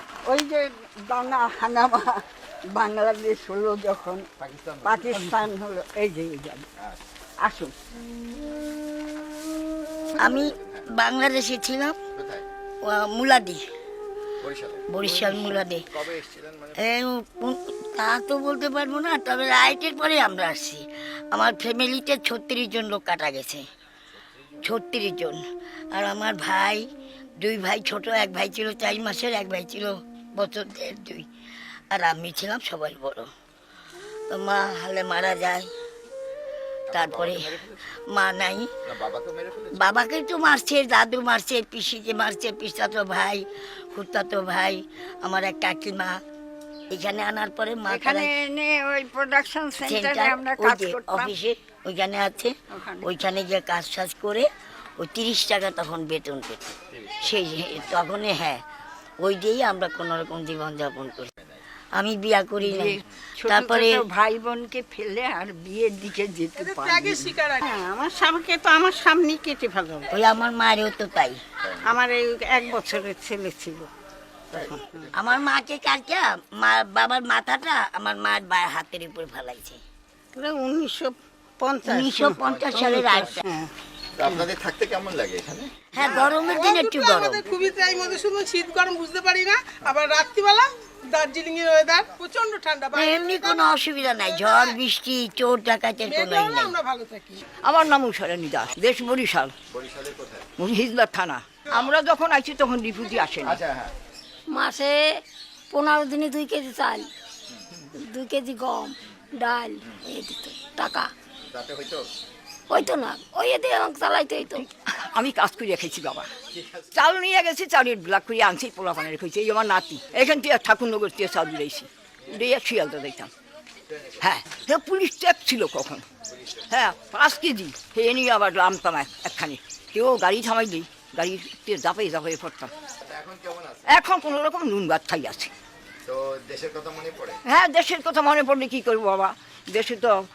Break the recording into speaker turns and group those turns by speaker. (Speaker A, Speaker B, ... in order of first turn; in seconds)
Speaker A: 0.2-2.2, 2.7-4.3, 4.8-6.7, 7.4-7.7, 15.0-15.4, 47.9-51.3, 52.7-53.1, 62.6-70.1, 71.8-73.9, 80.3-83.7
Speaker B: 4.4-5.4, 10.1-10.8, 12.2-12.4, 14.4-14.9, 15.9-16.8, 36.9-37.8, 38.9-39.9, 71.6-71.9, 74.5-75.1, 82.4-83.2, 84.2-85.8, 99.7-100.5, 103.4-103.9, 111.5-112.0, 116.5-116.8, 123.9-124.2, 126.3-126.7, 133.0-134.0, 136.1-137.4
Speaker C: 10.2-12.0, 12.8-13.7, 14.9-15.9, 16.8-23.6, 24.6-26.9, 27.4-31.3, 31.9-33.3, 34.3-35.7, 36.9-38.7, 39.7-46.2, 46.9-48.4, 49.8-58.6, 59.2-61.3, 62.0-64.0, 70.1-71.4, 75.1-79.8, 81.8-83.4, 85.9-87.4, 92.9-96.7
Speaker D: 66.5-67.6, 86.0-93.7, 94.3-94.7, 96.1-97.4
Speaker E: 97.6-99.5, 100.6-103.6, 114.5-116.3, 116.9-123.3, 124.2-126.0, 126.7-132.7, 133.9-135.5, 137.4-140.1
Speaker F: 104.5-107.1, 108.0-111.1, 112.7-114.6